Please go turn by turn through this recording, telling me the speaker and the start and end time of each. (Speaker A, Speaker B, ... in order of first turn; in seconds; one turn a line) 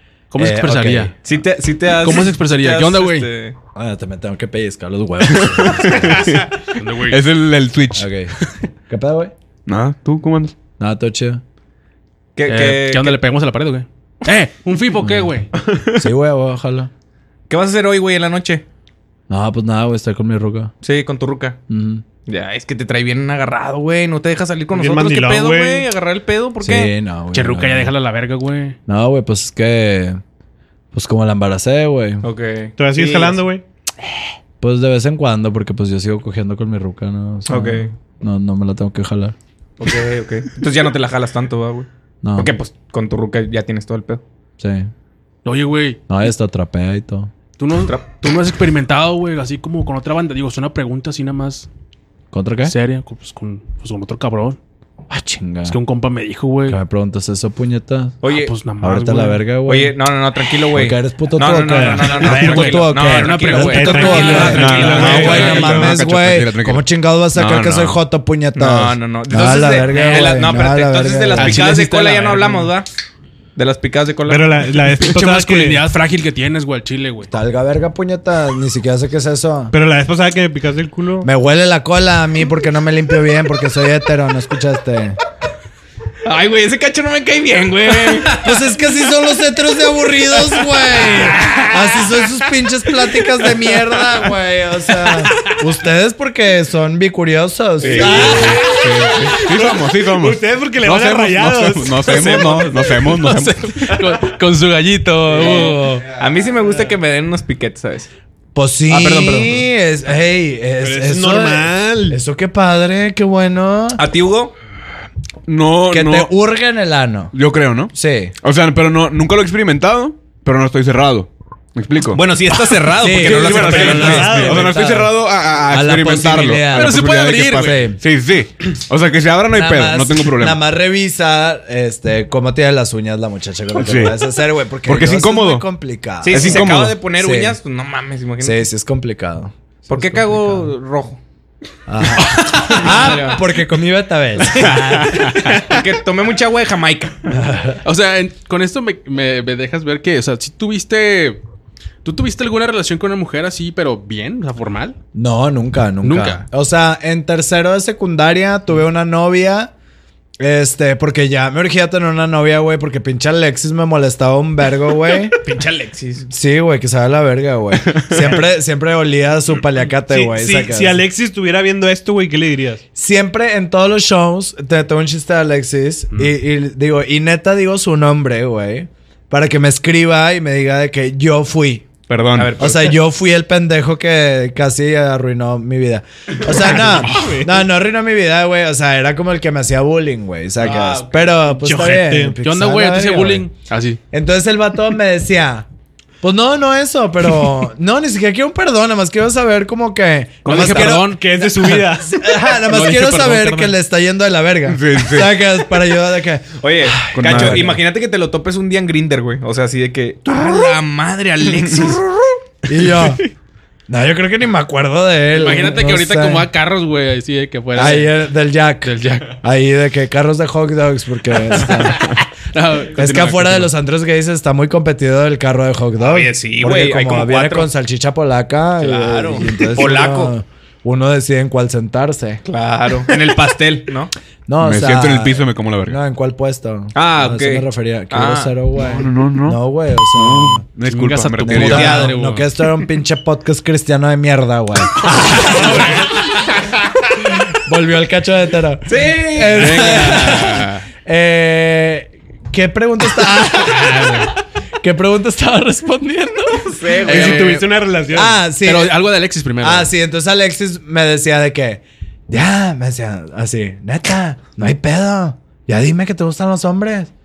Speaker A: 0.3-1.1
Speaker B: 0.4-1.1
Speaker C: 1.2-3.5
Speaker A: 2.0-3.3
Speaker B: 3.8-6.4
Speaker D: 5.3-8.1
Speaker A: 6.8-7.2
Speaker B: 7.9-8.3
Speaker B: 8.9-9.3
Speaker D: 9.7-10.5
Speaker B: 10.8-11.4
Speaker C: 12.4-13.2
Speaker A: 12.5-15.5
Speaker B: 15.0-15.3
Speaker B: 15.9-16.9
Speaker C: 17.5-18.6
Speaker B: 19.3-20.7
Speaker C: 20.8-21.6
Speaker B: 21.7-22.0
Speaker C: 22.3-26.9
Speaker E: 24.7-25.9
Speaker B: 26.6-27.9
Speaker A: 27.3-28.8
Speaker B: 28.9-30.2
Speaker B: 30.9-32.2
Speaker C: 32.2-33.4
Speaker E: 32.8-33.6
Speaker B: 34.6-39.4
Speaker C: 37.5-37.9
Speaker C: 39.8-44.2
Speaker B: 42.2-42.5
Speaker B: 44.6-44.9
Speaker A: 45.5-46.0
Speaker B: 46.1-47.3
Speaker A: 47.6-51.7
Speaker B: 52.3-52.7
Speaker A: 52.6-54.6
Speaker B: 55.1-55.8
Speaker A: 55.7-56.8
Speaker B: 56.7-58.2
Speaker C: 58.2-58.5
Speaker A: 58.3-59.4
Speaker B: 58.8-60.0
Speaker C: 59.7-65.6
Speaker B: 60.7-71.7
Speaker A: 62.0-65.9
Speaker E: 63.5-66.0
Speaker D: 64.6-66.8
Speaker D: 67.3-68.0
Speaker C: 68.5-72.9
Speaker A: 69.9-70.4
Speaker A: 71.4-72.7
Speaker C: 73.6-74.5
Speaker E: 74.3-75.8
Speaker A: 74.9-77.3
Speaker B: 77.3-79.7
Speaker E: 79.7-81.3
Speaker B: 81.2-85.2
Speaker C: 86.2-88.5
Speaker B: 88.4-98.7
Speaker C: 90.9-92.3
Speaker C: 93.3-93.7
Speaker C: 97.8-99.4
Speaker A: 98.0-99.1
Speaker E: 98.0-98.3
Speaker D: 99.3-103.9
Speaker E: 99.5-102.4
Speaker C: 102.0-103.1
Speaker A: 103.1-106.1
Speaker C: 105.3-108.1
Speaker B: 105.5-105.7
Speaker B: 108.5-114.0
Speaker C: 108.9-109.6
Speaker E: 110.8-112.2
Speaker C: 114.0-114.5
Speaker D: 115.5-116.3
Speaker B: 115.9-117.3
Speaker D: 117.3-122.2
Speaker B: 117.9-118.3
Speaker C: 122.1-124.7
Speaker B: 123.0-128.0
Speaker D: 123.2-130.6
Speaker E: 123.2-124.8
Speaker A: 126.7-127.8
Speaker B: 129.5-137.6
Speaker D: 133.8-134.2
Speaker D: 134.9-135.7
Speaker C: 136.2-138.6
Speaker D: 136.3-136.9
Speaker B: 138.4-140.7
Speaker C: 139.9-141.2
Speaker B: 141.9-145.4
Speaker A: 142.3-143.1
Speaker C: 142.6-143.4
Speaker C: 145.1-147.3
Speaker B: 147.3-147.8
Speaker A: 147.8-151.4
Speaker A: 152.0-155.0
Speaker B: 155.1-159.7
Speaker A: 156.0-156.4
Speaker B: 160.4-165.4
Speaker C: 165.3-166.3
Speaker B: 166.3-171.0
Speaker E: 170.1-172.8
Speaker B: 172.9-181.9
Speaker D: 182.1-182.8
Speaker C: 182.3-182.9
Speaker B: 182.6-193.4
Speaker E: 186.8-187.5
Speaker A: 187.0-187.4
Speaker C: 190.7-191.0
Speaker E: 191.5-192.4
Speaker A: 192.1-194.0
Speaker B: 194.1-195.7
Speaker B: 196.2-207.8
Speaker A: 200.4-203.8
Speaker E: 200.5-202.2
Speaker D: 204.7-205.4
Speaker C: 206.6-212.4
Speaker D: 207.1-207.8
Speaker B: 212.7-213.2
Speaker B: 213.9-216.5
Speaker A: 215.3-218.2
Speaker B: 217.8-222.2
Speaker A: 218.8-219.4
Speaker A: 221.6-223.7
Speaker B: 222.9-232.4
Speaker C: 226.0-227.7
Speaker C: 228.8-230.3
Speaker C: 232.5-234.1
Speaker B: 234.5-240.6
Speaker D: 234.6-236.0
Speaker C: 236.9-238.5
Speaker D: 238.8-239.6
Speaker D: 240.1-242.1
Speaker A: 240.8-242.5
Speaker B: 241.4-246.4
Speaker C: 241.6-242.1
Speaker A: 245.4-246.1
Speaker B: 247.4-254.3
Speaker C: 248.9-250.3
Speaker A: 249.5-250.8
Speaker A: 253.6-254.3
Speaker B: 254.8-259.0
Speaker C: 256.8-257.5
Speaker E: 257.0-258.4
Speaker A: 257.1-257.6
Speaker A: 258.6-259.9
Speaker B: 259.6-267.1